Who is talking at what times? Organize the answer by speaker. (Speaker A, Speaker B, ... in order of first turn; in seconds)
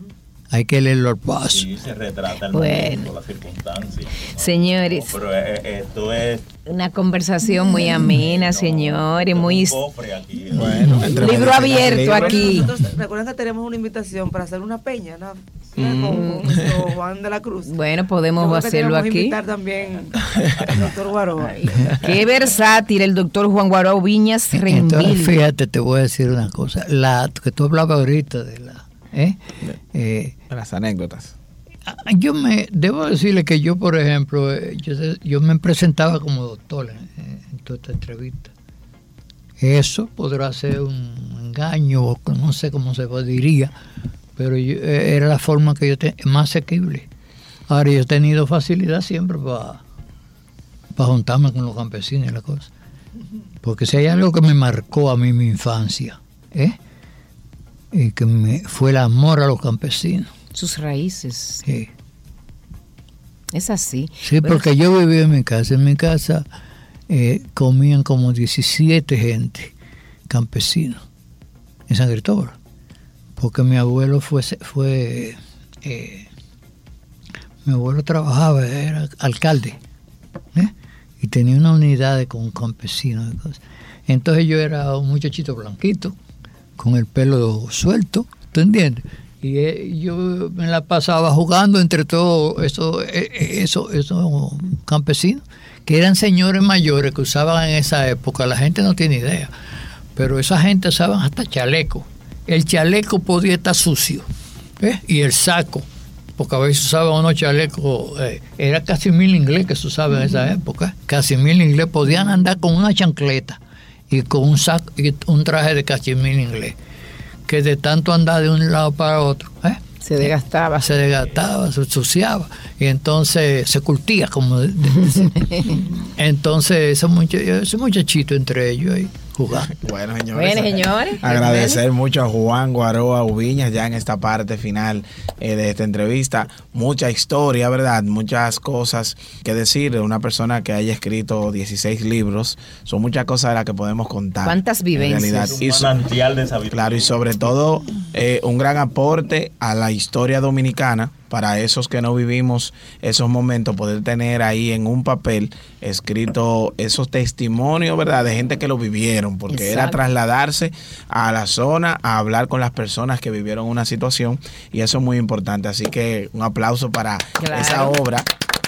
Speaker A: 0.5-1.7, 10.6-11.1, 24.5-30.4, 31.9-38.5, 39.6-43.7, 44.4-47.1, 47.7-49.8, 51.0-52.7, 53.6-56.8, 57.9-60.3, 61.6-61.9, 64.2-66.5, 67.1-69.7, 70.3-71.0, 71.9-72.6, 73.4-76.3, 77.7-79.8, 80.5-86.2, 86.8-99.5, 100.2-104.3, 104.8-116.8, 117.5-129.8
Speaker B: 1.5-6.5, 8.0-12.2, 20.6-20.9, 145.3-147.5
Speaker C: 2.5-3.1, 4.4-5.1, 6.7-9.8, 10.9-12.7, 16.1-16.6, 17.6-19.4, 21.7-25.4, 60.5-61.6, 63.5-64.7, 120.0-120.9, 125.4-125.8, 130.3-131.8, 144.4-145.6, 159.5-160.0, 167.4-168.0
Speaker D: 10.5-12.8, 15.8-16.2, 30.5-31.3, 129.7-146.0, 146.7-168.3
Speaker E: 11.9-17.8, 18.4-22.1